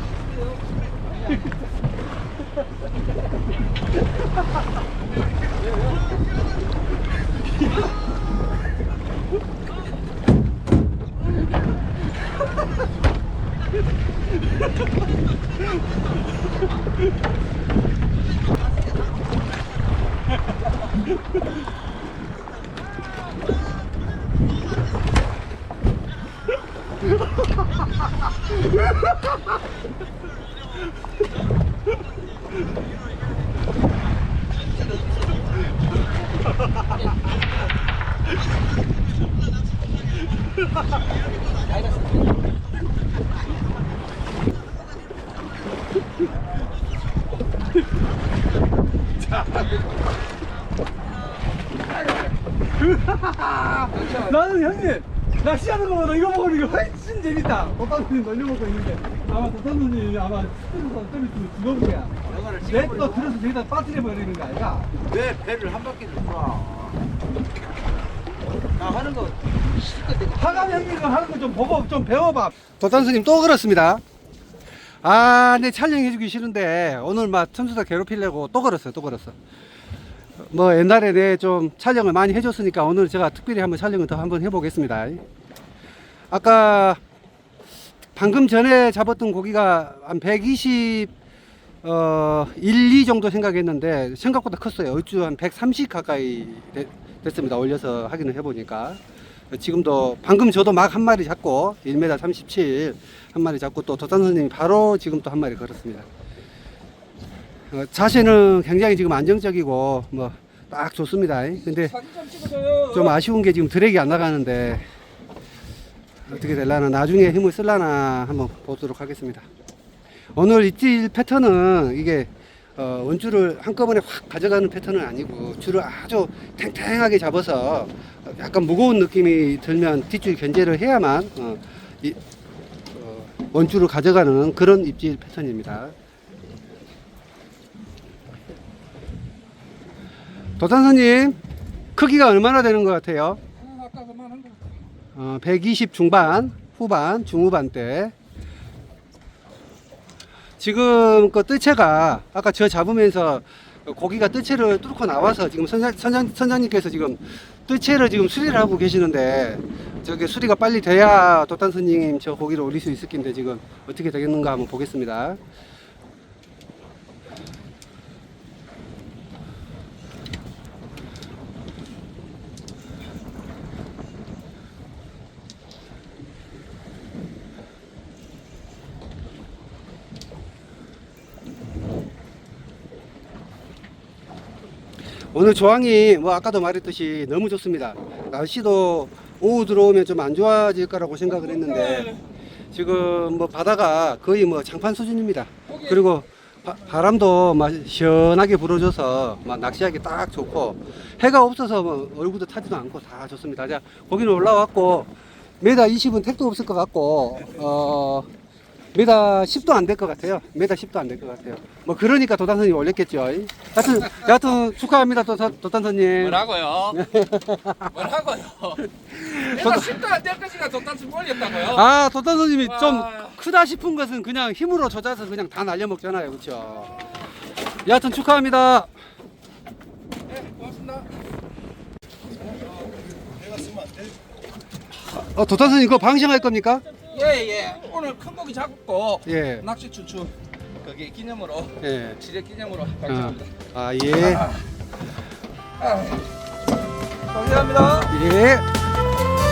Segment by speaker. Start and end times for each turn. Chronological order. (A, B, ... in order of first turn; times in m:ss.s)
0:41.7-0:42.1 A
0:52.8-1:04.9 B
0:53.8-0:54.4 C
1:02.2-1:03.3 A
1:05.0-1:07.0 A
1:08.7-1:11.0 A
1:10.3-1:14.0 B
1:15.0-1:19.3 B
1:20.4-1:25.2 B
1:26.3-1:27.0 B
1:28.1-1:31.1 B
1:31.8-1:39.0 B
1:39.5-1:46.0 B
1:47.7-1:52.0 B
1:51.6-1:53.2 C
1:52.9-1:54.8 B
1:56.2-1:59.4 B
2:00.3-2:12.2 B
2:12.9-2:15.9 B
2:20.6-2:21.4 B
2:21.9-2:23.4 B
2:23.6-2:24.6 C
2:25.1-2:28.1 B
2:30.6-2:45.4 B
3:05.3-3:12.1 B
3:11.3-3:12.2 C
3:12.7-3:28.3 B
3:15.7-3:16.0 C
3:28.9-3:38.0 B
3:36.2-3:37.1 C
3:37.9-3:41.8 C
3:39.0-3:40.0 B
3:41.6-3:47.0 B
3:42.6-3:43.4 C
3:47.8-3:48.9 B
3:50.3-3:51.1 C
3:55.2-3:56.8 B
3:57.1-4:03.5 C
3:59.2-3:59.7 B
4:01.8-4:02.2 B
4:03.1-4:04.5 B
4:04.1-4:04.6 C
4:05.8-4:06.2 C
4:07.3-4:08.1 C
4:08.1-4:08.7 B